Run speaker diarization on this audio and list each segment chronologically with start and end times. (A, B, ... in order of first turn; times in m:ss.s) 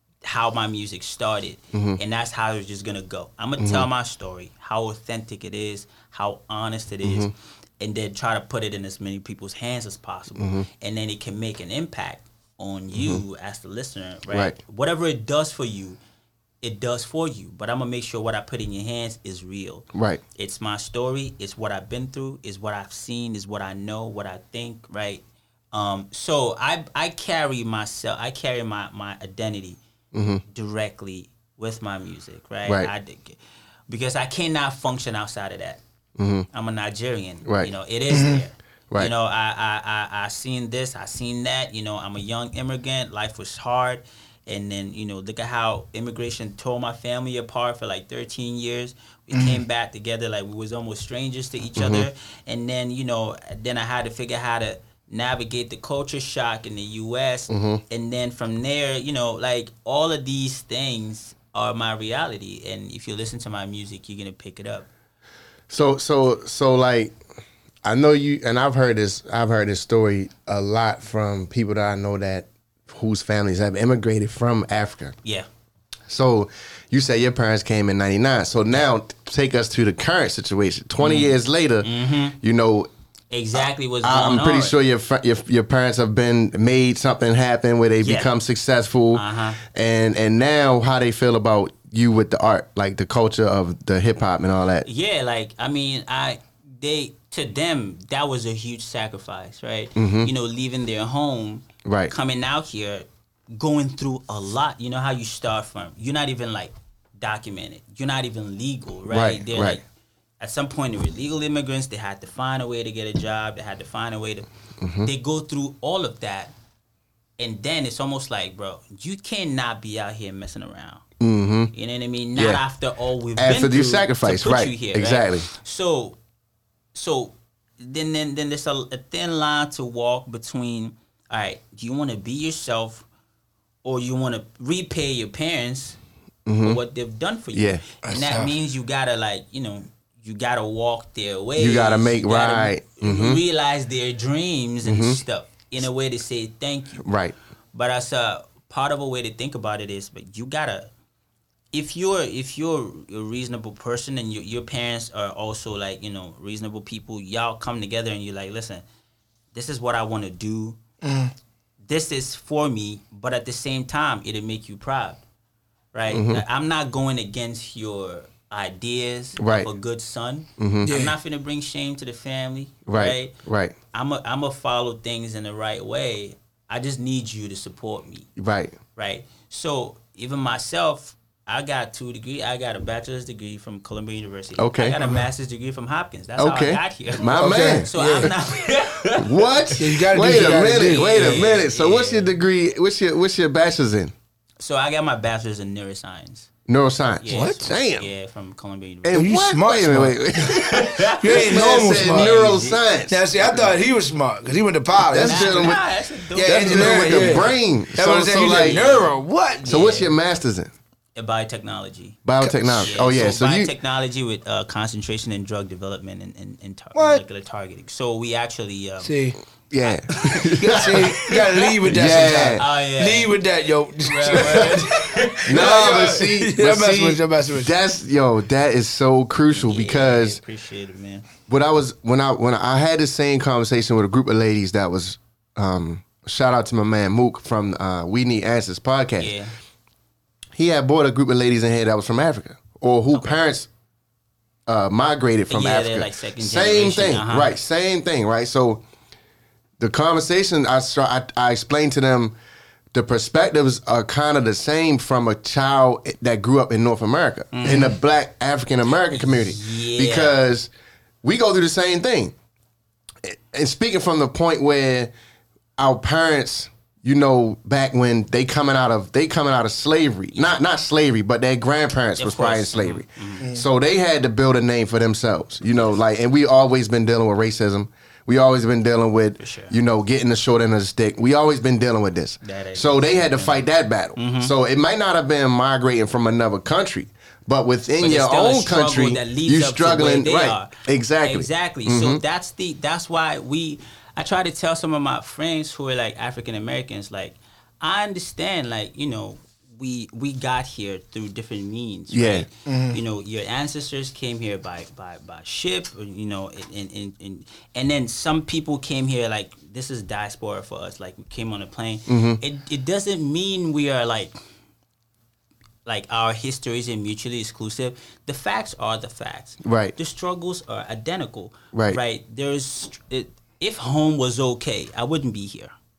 0:00.2-0:16.0 A
0:01.7-0:02.0 B
0:03.6-0:03.9 B
0:07.0-0:07.3 B
0:10.4-0:10.6 B
0:12.9-0:13.2 B
0:14.3-0:14.6 B
0:16.6-0:29.8 A
0:19.9-0:20.2 B
0:30.1-0:30.4 B
0:30.5-0:35.8 A
0:32.6-0:32.9 B
0:36.2-0:36.5 B
0:36.5-1:04.9 A
0:37.4-0:37.7 B
0:38.1-0:38.4 C
0:49.3-0:49.6 C
0:51.8-0:52.1 B
0:57.5-0:57.8 B
1:05.7-1:07.2 B
1:07.8-1:15.1 B
1:16.1-1:22.9 B
1:21.0-1:22.4 A
1:23.3-1:24.7 A
1:24.0-1:34.8 B
1:28.0-1:28.3 A
1:29.1-1:29.6 A
1:34.8-1:49.8 A
1:40.0-1:40.3 B
1:41.8-1:42.1 B
1:49.1-1:49.8 B
1:50.4-1:54.4 A
1:54.8-1:55.1 B
1:55.0-1:56.5 A
1:57.4-2:01.0 A
2:01.2-2:01.7 B
2:01.7-2:06.2 A
2:02.4-2:02.6 B
2:03.4-2:05.5 B
2:06.9-2:13.0 A
2:13.8-2:16.0 A
2:16.4-2:16.8 B
2:16.6-2:27.0 A
2:17.5-2:17.8 B
2:18.0-2:18.5 C
2:21.6-2:23.4 B
2:24.8-2:25.2 B
2:27.0-2:27.3 B
2:27.7-2:30.9 A
2:31.7-2:38.8 A
2:39.5-2:40.8 A
2:41.0-2:41.3 C
2:41.8-2:45.2 A
2:45.9-2:53.3 A
2:46.1-2:46.4 B
2:49.4-2:49.7 B
2:50.6-2:50.9 B
2:50.8-2:51.1 C
2:52.9-2:53.8 B
2:53.9-2:58.3 A
2:58.4-2:58.8 B
2:59.0-3:12.4 A
3:04.6-3:05.0 B
3:06.4-3:08.3 B
3:07.4-3:08.3 C
3:09.1-3:14.1 B
3:09.8-3:11.5 C
3:14.6-3:16.5 A
3:16.7-3:18.1 B
3:17.2-3:19.3 A
3:19.0-3:23.7 B
3:19.1-3:20.2 C
3:20.4-3:22.8 A
3:21.1-3:22.4 C
3:23.1-3:25.8 C
3:25.0-3:25.8 B
3:25.2-3:27.6 A
3:26.3-3:29.7 C
3:26.4-3:28.8 B
3:28.5-3:30.1 A
3:29.6-3:30.7 B
3:31.2-3:39.1 A
3:32.2-3:33.7 B
3:32.4-3:32.9 C
3:37.0-3:37.2 C
3:39.0-3:39.4 C
3:39.7-3:41.1 B
3:39.8-3:43.4 A
3:40.6-3:47.7 C
3:41.9-3:42.6 B
3:44.0-3:46.0 A
3:44.3-3:44.7 B
3:45.5-3:50.4 B
3:49.5-3:51.3 A
3:51.5-3:59.3 B
3:59.2-3:59.5 A
4:00.5-4:03.7 B
4:03.1-4:03.4 A
4:04.7-4:08.8 B
4:05.5-4:07.5 A
4:09.8-4:12.4 B
4:12.9-4:20.7 B
4:17.5-4:18.0 A
4:19.1-4:20.4 A
4:21.2-4:22.3 B
4:23.2-4:25.1 B
4:25.8-4:52.2 B
4:32.2-4:33.5 A
4:39.4-4:39.7 A
4:42.4-4:44.5 A
4:48.0-5:14.3 A
5:02.1-5:02.4 B
5:02.6-5:03.0 C
5:12.1-5:12.4 B
5:15.8-5:25.7 A
5:19.6-5:19.9 B
5:21.7-5:22.0 B